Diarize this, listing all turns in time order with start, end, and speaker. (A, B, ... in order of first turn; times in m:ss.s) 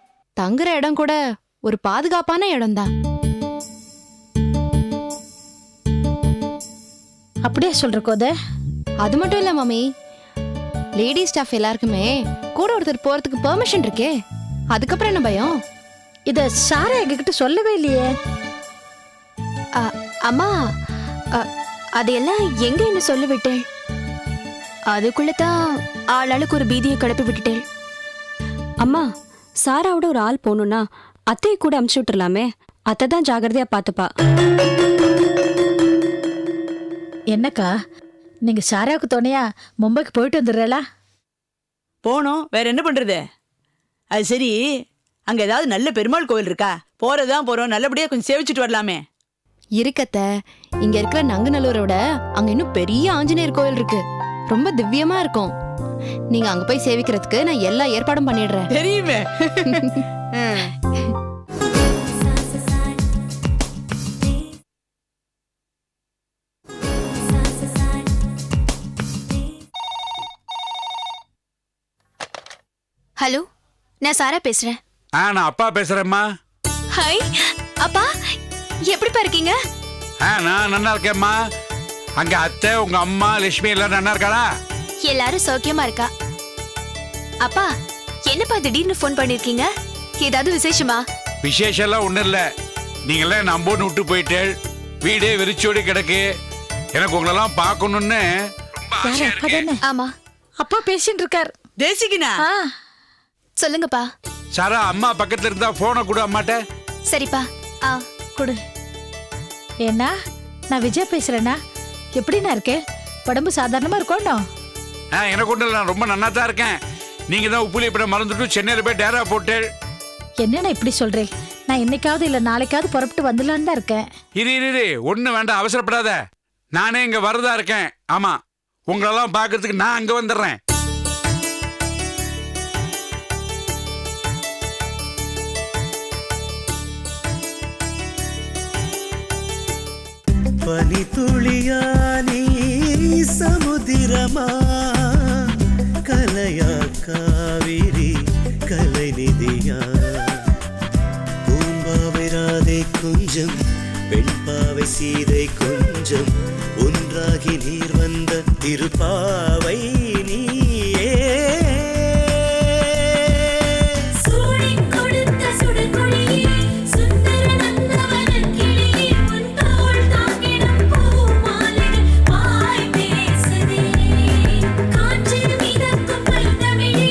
0:00.4-0:02.9 A
0:07.4-0:08.3 B
0:09.0-0:09.9 A
0:11.0-0:14.2 A
0:14.7-0:15.5 A
0:16.3-0:18.1 B
0:19.8-0:20.5 C
0:22.0-0:23.6 C
0:24.9-0:25.5 C
0:26.2-0:27.6 C
0:28.8-0:29.1 D
0:29.6-0:34.1 D
0:37.3-0:37.7 B
0:38.4-0:40.8 B
0:42.0-0:43.2 E
0:44.1-0:44.7 E
0:45.3-0:49.0 E
0:49.8-0:50.3 A
0:50.8-0:55.6 A
0:56.3-0:58.7 A
0:58.7-0:59.8 E
0:59.6-1:00.0 A
1:13.2-1:13.4 C
1:14.0-1:14.8 C
1:15.2-1:16.3 F
1:16.9-1:17.3 C
1:17.8-1:18.1 C
1:18.9-1:19.6 C
1:20.2-1:21.4 F
1:22.2-1:24.5 F
1:25.0-1:26.1 C
1:27.4-1:27.7 C
1:28.3-1:29.7 C
1:30.2-1:31.0 C
1:31.4-1:32.5 F
1:33.1-1:36.3 F
1:37.0-1:39.7 F
1:39.0-1:39.8 B
1:39.8-1:40.1 C
1:40.6-1:41.5 B
1:41.8-1:42.4 E
1:42.4-1:42.7 B
1:43.6-1:44.1 C
1:44.5-1:46.6 F
1:47.1-1:48.0 C
1:49.8-1:50.1 B
1:50.7-1:51.6 B
1:52.2-1:54.4 B
1:55.1-1:59.6 F
2:00.4-2:04.1 B
2:04.4-2:10.6 F
2:20.6-2:22.4 G
2:23.2-2:25.2 G
2:26.1-2:28.1 G
2:28.7-2:30.3 G
2:31.5-2:33.6 G
2:34.1-2:40.5 G
2:41.0-2:42.3 G